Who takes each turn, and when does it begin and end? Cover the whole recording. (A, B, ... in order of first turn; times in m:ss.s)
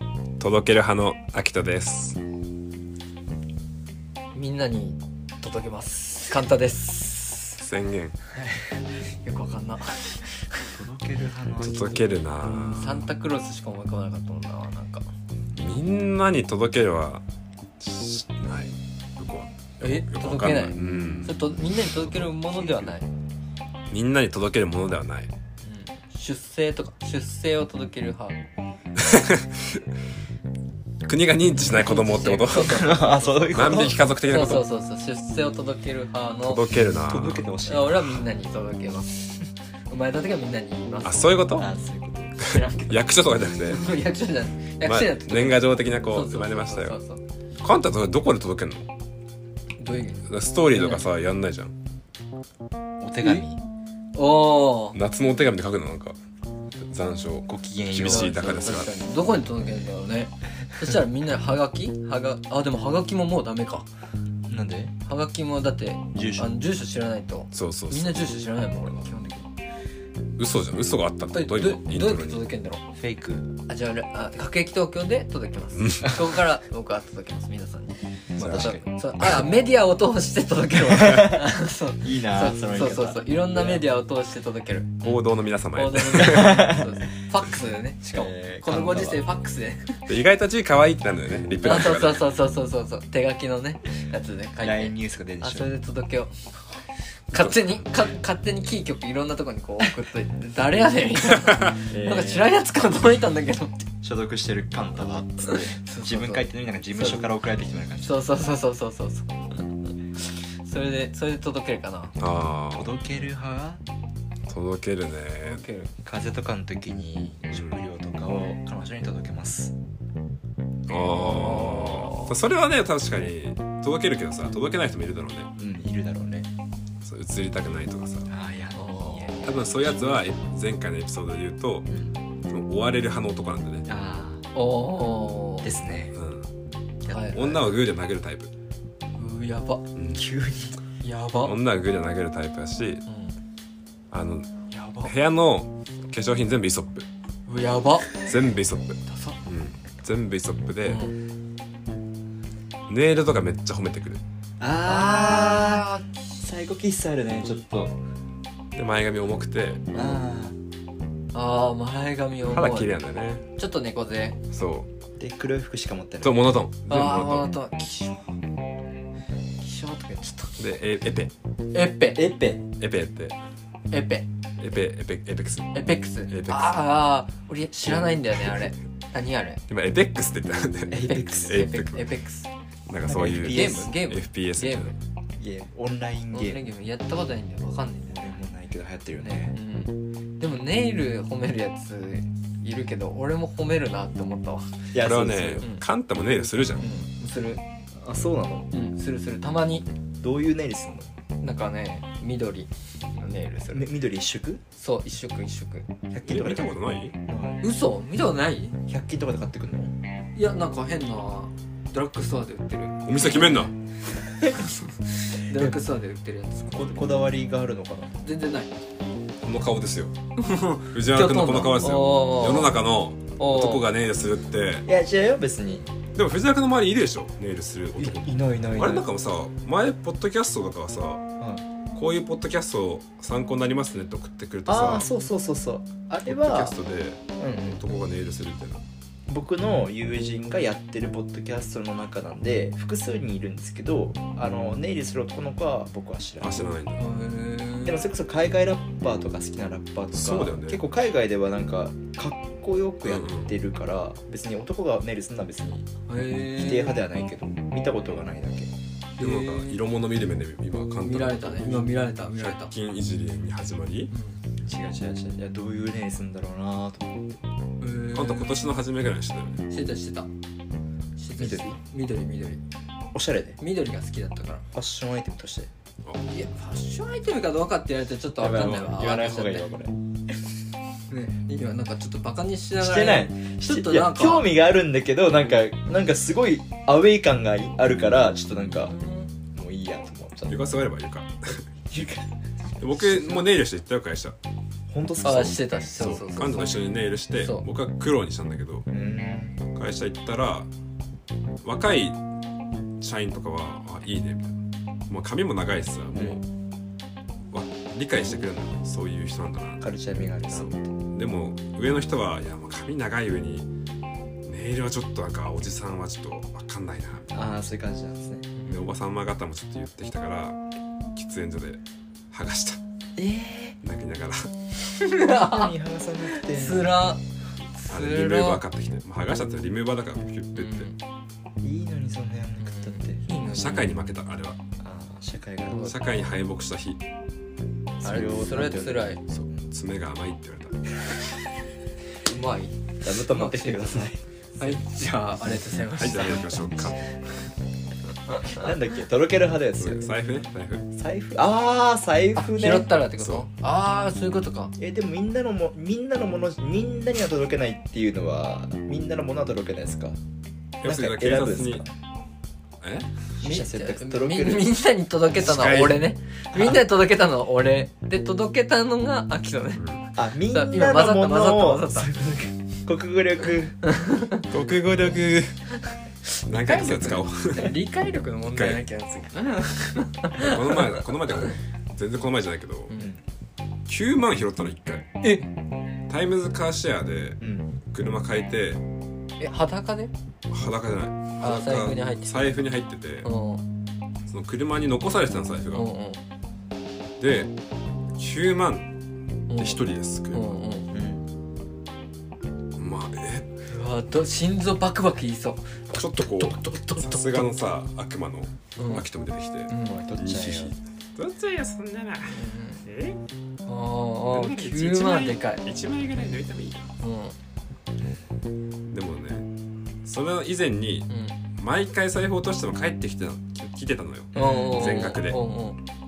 0:00.4-0:02.2 A
0:04.3-0:07.6 B
0:07.6-0:08.2 A
0:08.4-0:08.6 C
0:09.0-0:10.8 B
0:10.7-0:12.0 C
0:11.6-0:13.1 A
0:12.4-0:15.0 B
0:15.6-0:17.2 A
0:17.8-0:22.9 A
0:19.8-0:23.1 B
0:23.9-0:25.3 A
0:25.6-0:28.4 B
0:29.0-0:29.8 A
0:31.1-0:32.9 A
0:31.6-0:36.6 B
0:32.6-0:34.1 C
0:33.5-0:34.6 A
0:36.5-0:37.4 A
0:36.8-0:38.3 C
0:37.6-0:41.8 B
0:41.0-0:41.7 A
0:41.6-0:42.4 C
0:42.4-0:47.2 B
0:42.4-0:43.8 A
0:44.8-0:47.0 A
0:47.6-0:48.9 A
0:49.8-0:51.1 B
0:50.3-0:51.7 A
0:53.0-0:53.6 C
0:53.2-0:53.5 B
0:54.2-0:55.0 B
0:55.0-0:56.2 A
0:56.8-0:58.9 A
0:57.5-0:58.9 C
0:58.0-1:03.9 B
1:04.5-1:04.9 C
1:05.1-1:09.5 B
1:06.1-1:06.5 C
1:07.5-1:08.3 A
1:10.4-1:12.4 A
1:11.3-1:12.8 B
1:13.0-1:13.5 C
1:13.7-1:25.1 B
1:15.8-1:16.1 A
1:18.4-1:18.8 C
1:18.4-1:19.5 A
1:20.9-1:21.4 C
1:22.0-1:23.8 C
1:25.0-1:26.7 A
1:25.7-1:30.1 B
1:26.2-1:26.9 C
1:28.0-1:29.2 C
1:30.1-1:32.3 A
1:31.6-1:36.5 B
1:34.6-1:35.7 C
1:37.3-1:43.9 B
1:37.4-1:37.7 A
1:41.9-1:42.6 C
1:44.0-1:48.2 C
1:45.5-1:47.2 B
1:48.0-1:49.7 B
1:50.2-1:52.1 B
1:52.2-1:52.9 A
1:52.7-1:53.8 C
1:54.5-1:55.6 A
1:55.4-1:55.9 B
1:56.0-1:59.7 C
1:57.5-1:57.8 A
2:00.9-2:05.5 A
2:01.1-2:02.3 B
2:05.6-2:06.5 C
2:07.0-2:08.3 A
2:08.3-2:09.6 C
2:08.8-2:10.2 B
2:09.4-2:11.9 A
2:11.9-2:12.2 C
2:12.5-2:13.9 A
2:13.9-2:14.5 C
2:14.6-2:15.7 B
2:15.6-2:16.2 C
2:16.2-2:16.5 A
2:17.1-2:17.8 C
2:17.1-2:17.5 B
2:17.3-2:18.5 A
2:19.2-2:19.8 B
2:20.0-2:20.2 A
2:20.1-2:20.8 C
2:21.0-2:21.6 B
2:21.4-2:23.0 A
2:23.1-2:23.4 B
2:24.1-2:24.5 A
2:24.7-2:25.1 B
2:25.0-2:27.1 A
2:27.5-2:28.3 B
2:28.2-2:31.0 A
2:29.1-2:29.4 B
2:30.9-2:31.2 B
2:32.9-2:34.2 A
2:34.6-2:35.9 C
2:34.8-2:36.2 B
2:36.4-2:38.0 C
2:38.7-2:40.2 A
2:39.9-2:40.6 C
2:41.3-2:42.9 B
2:42.4-2:43.4 A
2:43.6-2:44.4 B
2:44.5-2:44.9 A
2:45.2-2:46.5 C
2:46.2-2:47.5 A
2:46.9-2:48.2 B
2:49.6-2:50.5 B
2:50.6-2:51.3 A
2:51.7-2:52.3 B
2:52.1-2:52.7 C
2:52.8-2:53.4 A
2:53.9-2:54.3 B
2:54.6-2:56.8 A
2:55.7-2:59.6 B
2:57.8-2:58.7 A
2:59.7-3:02.1 A
3:00.9-3:01.7 C
3:01.0-3:02.5 B
3:02.9-3:04.9 A
3:03.1-3:03.9 C
3:03.4-3:05.0 B
3:05.4-3:06.6 C
3:06.3-3:08.2 B
3:08.1-3:09.6 C
3:09.2-3:14.7 B
3:14.9-3:15.7 C
3:15.0-3:16.9 A
3:16.8-3:17.6 B
3:18.0-3:18.7 C
3:18.7-3:19.9 B
3:20.2-3:21.1 C
3:21.4-3:23.9 B
3:23.7-3:24.6 C
3:24.8-3:25.9 B
3:26.1-3:27.6 C
3:26.2-3:27.2 A
3:27.6-3:28.8 B
3:28.9-3:30.0 C
3:30.4-3:33.7 B
3:33.1-3:33.7 A
3:34.4-3:36.8 B
3:35.5-3:35.8 C
3:36.7-3:38.2 C
3:38.2-3:38.8 B
3:39.4-3:40.1 A
3:40.4-3:42.8 B
3:40.9-3:44.9 A
3:43.4-3:43.9 B
3:44.9-3:45.9 C
3:46.2-3:51.2 A
3:48.0-3:49.1 C
3:51.9-3:55.1 A
3:54.7-3:56.8 C
3:56.3-3:58.8 A
3:57.4-3:57.8 C
3:59.3-4:06.7 C
4:06.4-4:07.0 A
4:07.0-4:08.0 B
4:07.8-4:15.9 C
4:10.1-4:10.8 A
4:13.0-4:13.6 A
4:16.1-4:17.0 B
4:16.4-4:18.7 C
4:19.2-4:19.8 B
4:19.2-4:24.1 A
4:21.0-4:22.7 B
4:24.1-4:24.4 B
4:24.6-4:27.4 C
4:27.8-4:28.7 B
4:28.1-4:29.6 A
4:29.7-4:30.3 B
4:31.2-4:32.6 B
4:31.4-4:31.7 C
4:33.1-4:33.6 C
4:33.6-4:34.7 B
4:34.7-4:35.7 C
4:36.3-4:39.7 B
4:38.4-4:40.0 C
4:41.1-4:44.5 B
4:42.8-4:48.9 C
4:48.7-4:49.3 B
4:49.5-4:50.6 C
4:50.5-4:51.6 A
4:51.9-4:52.3 C
4:52.8-4:54.4 A
4:54.9-4:55.6 C
4:55.2-4:56.9 B
4:56.0-4:58.9 A
4:58.9-4:59.6 C
4:59.8-5:00.7 A
5:01.6-5:02.2 A
5:03.0-5:06.4 A
5:07.5-5:09.9 A
5:09.8-5:10.9 C
5:10.5-5:13.7 A
5:14.5-5:17.4 A
5:17.3-5:18.5 C
5:18.6-5:18.9 B
5:18.7-5:20.6 A
5:21.2-5:22.8 A
5:23.2-5:23.8 C
5:23.8-5:24.5 A
5:24.8-5:25.7 B
5:25.2-5:26.9 C
5:26.3-5:27.2 B
5:27.8-5:28.6 B
5:27.9-5:30.9 A
5:30.6-5:31.0 B
5:31.6-5:33.6 C
5:32.6-5:33.9 B
5:33.5-5:34.6 A
5:34.8-5:36.0 C
5:35.8-5:37.0 A
5:38.0-5:39.1 C
5:38.0-5:39.2 B
5:38.1-5:38.5 A
5:39.3-5:41.4 A
5:42.2-5:46.9 B
5:43.0-5:44.2 C
5:45.9-5:47.0 A
5:48.3-5:48.7 B
5:48.4-5:50.1 C
5:49.8-5:50.9 A
5:50.9-5:52.9 C
5:52.4-5:54.7 B
5:53.2-5:53.5 A
5:54.8-6:00.2 C
6:00.8-6:01.8 A
6:00.8-6:01.9 C
6:02.8-6:03.1 A
6:03.4-6:04.7 C
6:03.4-6:09.9 B
6:05.4-6:06.0 A
6:06.5-6:06.8 C
6:10.2-6:13.9 C
6:10.5-6:12.2 B
6:13.9-6:14.4 B
6:14.5-6:15.7 A
6:16.4-6:21.0 B
6:16.5-6:17.8 A
6:18.5-6:18.8 A
6:20.4-6:22.9 A
6:22.9-6:23.2 C
6:23.9-6:25.1 A
6:26.1-6:28.8 A
6:27.4-6:27.7 C
6:29.4-6:30.1 B
6:30.5-6:33.3 A
6:31.4-6:32.6 B
6:33.2-6:33.6 B
6:34.3-6:35.9 A
6:35.7-6:36.2 B
6:37.2-6:37.5 A
6:38.2-6:38.9 A
6:39.5-6:39.8 B
6:39.5-6:40.6 A
6:40.3-6:40.9 B
6:40.9-6:41.2 C
6:42.8-6:43.5 A
6:43.7-6:47.5 B
6:45.9-6:53.2 A
6:46.4-6:47.0 C
6:48.8-6:49.0 B
6:49.7-6:50.0 B
6:49.8-6:50.8 C
6:52.3-6:52.8 B
6:53.7-6:55.6 B
6:54.3-6:56.9 A
6:57.0-6:57.4 B
6:58.9-6:59.5 A
7:00.0-7:05.4 A
7:01.1-7:01.4 B
7:04.4-7:04.8 C
7:04.4-7:05.8 B